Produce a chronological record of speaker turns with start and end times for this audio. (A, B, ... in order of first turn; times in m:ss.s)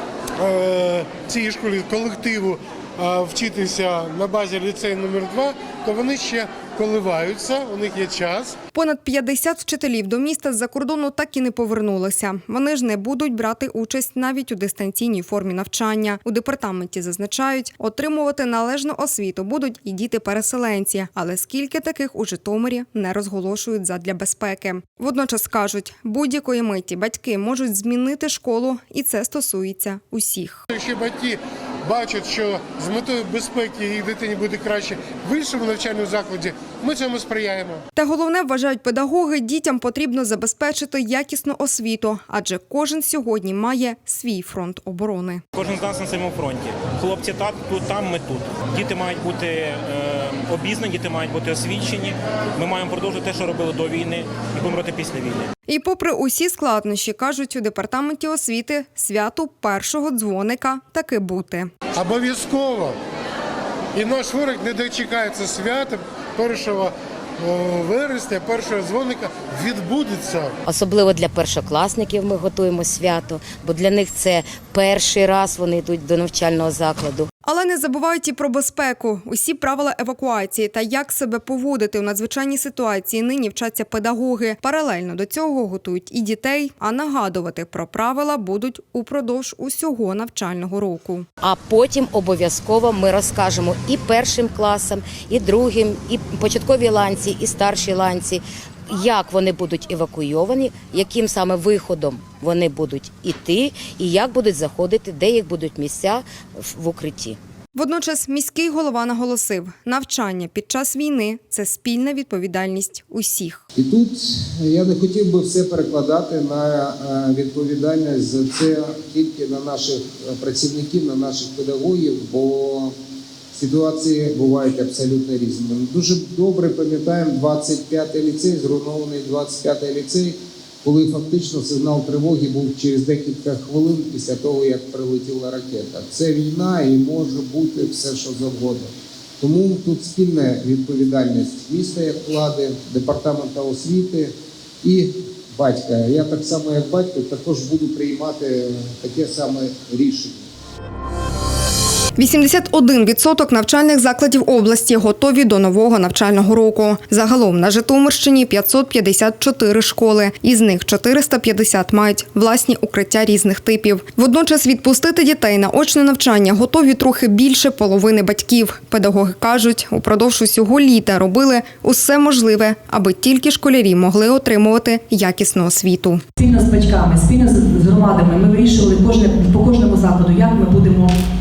0:00.4-0:08.6 A
0:08.7-0:30.7 B
0:30.7-0:37.8 A
0:38.0-0:45.4 B
0:45.5-0:55.5 C
0:55.7-1:01.7 B
1:02.0-1:03.0 A
1:04.0-1:10.5 A
1:10.7-1:17.3 D
1:17.4-1:31.3 B
1:31.4-1:47.4 D
1:47.8-1:53.6 B
1:53.8-2:03.0 E
2:03.5-2:30.4 E
2:32.2-2:56.2 B
2:56.4-3:01.2 F